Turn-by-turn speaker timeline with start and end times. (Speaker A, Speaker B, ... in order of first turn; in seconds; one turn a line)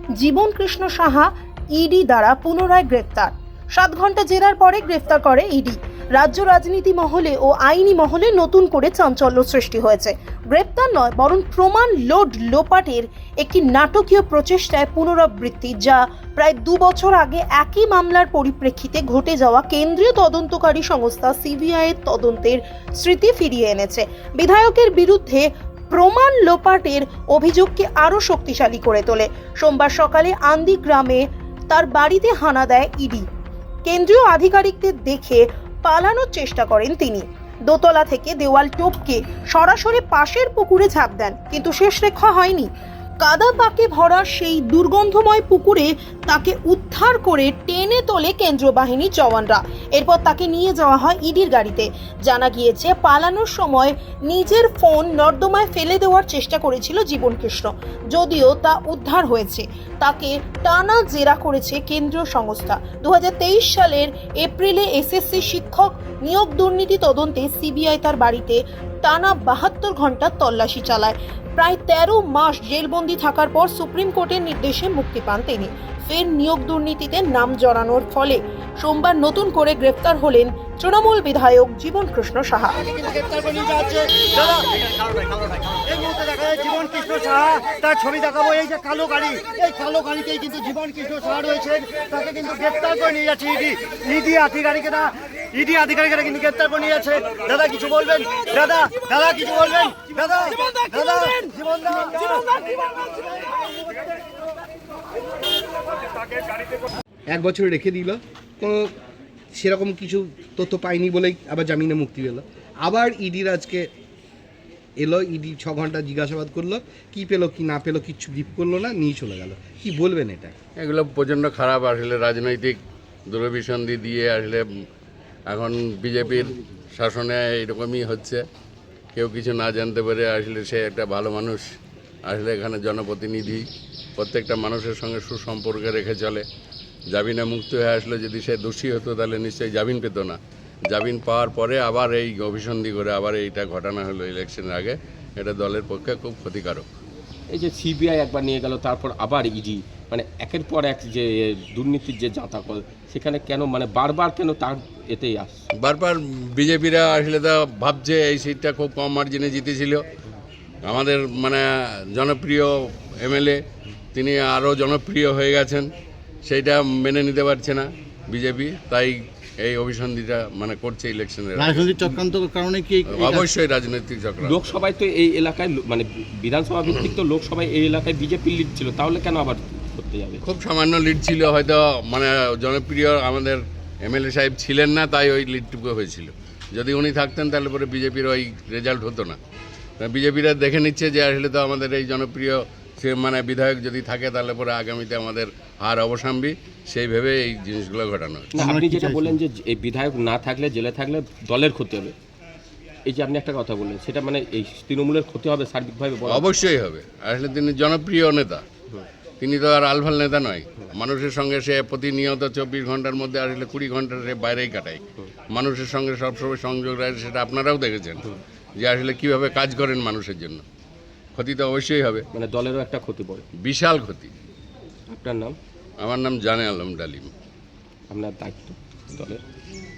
Speaker A: 0.2-33.2
Speaker A: 33.8-42.7
Speaker A: 43.2-82.9
Speaker B: 82.9-102.0
Speaker A: 98.4-98.7
Speaker A: 100.4-103.3
Speaker C: 107.3-108.9
Speaker C: 109.5-113.9
Speaker C: 115.0-120.5
Speaker D: 120.8-122.8
Speaker D: 123.3-124.6
Speaker D: 125.5-128.4
Speaker D: 129.2-131.7
Speaker D: 132.3-136.4
Speaker D: 137.1-140.4
Speaker D: 140.9-146.8
Speaker E: 147.5-155.6
Speaker D: 155.8-160.1
Speaker D: 160.8-163.6
Speaker D: 164.1-165.9
Speaker D: 166.4-172.1
Speaker F: 171.6-173.4
Speaker D: 173.1-174.7
Speaker E: 174.4-180.4
Speaker D: 180.4-189.4
Speaker D: 190.0-198.6
Speaker E: 198.5-202.1
Speaker F: 198.6-199.4
Speaker E: 203.1-206.4
Speaker D: 206.2-208.6
Speaker D: 209.4-220.6
Speaker D: 221.3-222.3
Speaker E: 222.3-223.5
Speaker D: 223.6-224.3
Speaker E: 225.1-225.6
Speaker D: 226.0-227.3
Speaker E: 228.1-229.4